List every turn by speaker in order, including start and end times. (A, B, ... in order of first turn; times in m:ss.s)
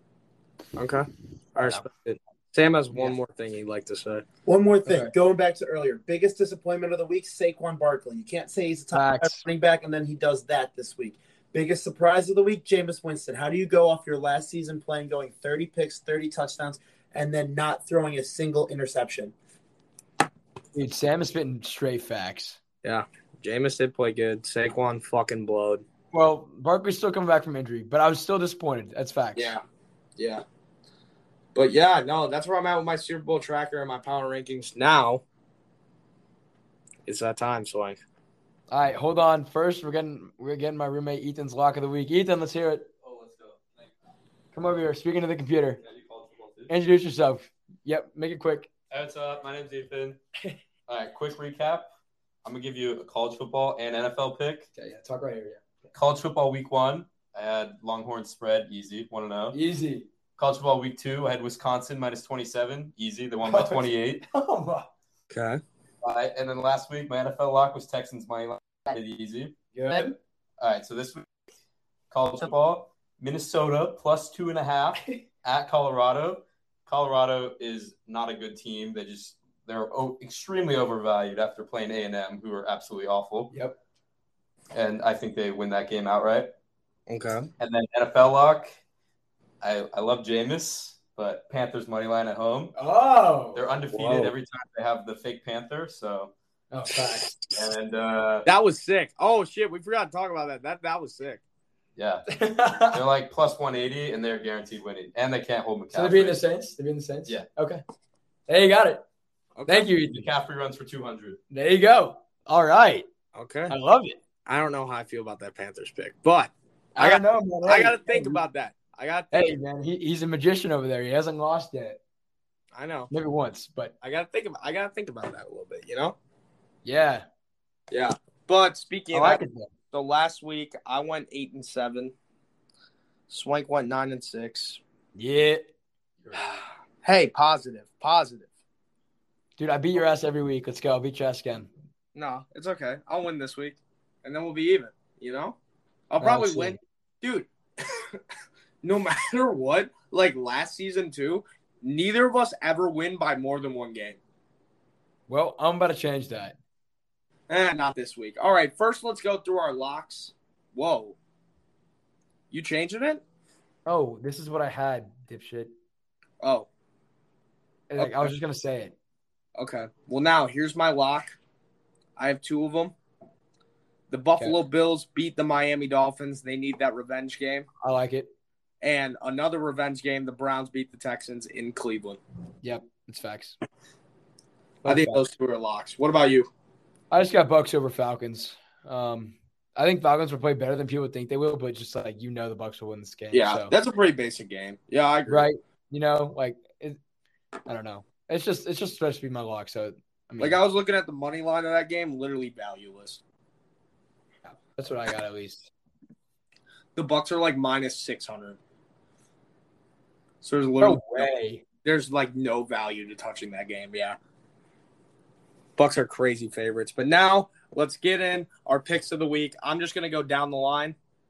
0:00.8-0:04.2 A
0:04.4-0:19.3 B
0:04.8-0:05.1 C
0:08.9-0:09.4 C
0:20.7-0:22.6 C
0:22.8-0:25.8 A
0:26.1-0:29.6 C
0:29.3-0:29.6 A
0:30.2-0:30.4 A
0:31.5-0:35.2 A
0:37.0-0:38.0 A
0:38.7-0:42.9 C
0:43.0-0:43.9 D
0:44.5-0:45.8 C
0:45.8-0:46.7 D
0:46.7-0:48.7 C
0:48.9-0:50.2 D
0:50.9-0:51.9 D
0:52.4-0:54.7 D
0:54.7-0:55.6 C
0:55.9-0:59.6 D
0:59.5-1:00.1 C
1:00.4-1:04.2 D
1:03.5-1:04.9 C
1:05.3-1:05.6 A
1:06.0-1:09.5 D
1:09.7-1:10.1 C
1:10.6-1:11.2 D
1:12.1-1:23.5 D
1:23.5-1:23.8 C
1:24.7-1:26.5 D
1:27.1-1:27.5 A
1:27.6-1:28.7 D
1:29.6-1:32.7 D
1:32.8-1:33.6 C
1:33.5-1:36.3 D
1:33.9-1:34.3 A
1:36.7-1:37.4 C
1:37.5-1:38.5 D
1:38.4-1:41.4 A
1:42.0-1:46.4 D
1:42.3-1:43.0 C
1:45.9-1:47.8 C
1:48.5-1:49.0 C
1:49.6-1:49.9 A
1:49.7-1:50.2 C
1:50.1-1:51.4 D
1:51.5-1:53.1 C
1:53.3-1:53.7 A
1:53.7-1:54.2 C
1:54.4-1:59.5 A
1:57.0-1:58.4 C
1:59.3-2:02.0 C
2:02.7-2:03.1 A
2:03.1-2:03.9 C
2:04.0-2:06.2 A
2:06.8-2:07.3 C
2:07.9-2:09.4 A
2:09.1-2:09.7 C
2:09.9-2:12.1 A
2:13.3-2:14.8 A
2:15.2-2:15.7 C
2:17.0-2:18.5 A
2:19.6-2:21.7 C
2:22.1-2:25.6 A
2:26.1-2:28.2 A
2:26.2-2:26.8 C
2:28.8-2:34.2 A
2:35.3-2:36.6 C
2:37.5-2:41.2 A
2:42.5-2:43.2 A
2:43.8-2:45.7 C
2:46.4-2:46.7 A
2:47.9-2:48.9 C
2:48.0-2:48.4 A
2:49.6-2:51.4 A
2:52.2-2:52.9 A
2:54.1-2:57.7 A
2:57.8-2:58.3 C
2:58.8-3:02.2 A
3:02.6-3:03.6 C
3:04.8-3:05.2 C
3:04.8-3:06.5 A
3:07.1-3:13.7 C
3:13.3-3:15.5 A
3:15.3-3:17.0 C
3:17.7-3:20.6 C
3:20.4-3:23.2 A
3:24.4-3:25.7 C
3:26.9-3:28.6 A
3:30.4-3:31.3 A
3:30.8-3:31.6 C
3:31.8-3:34.2 A
3:35.8-3:41.0 A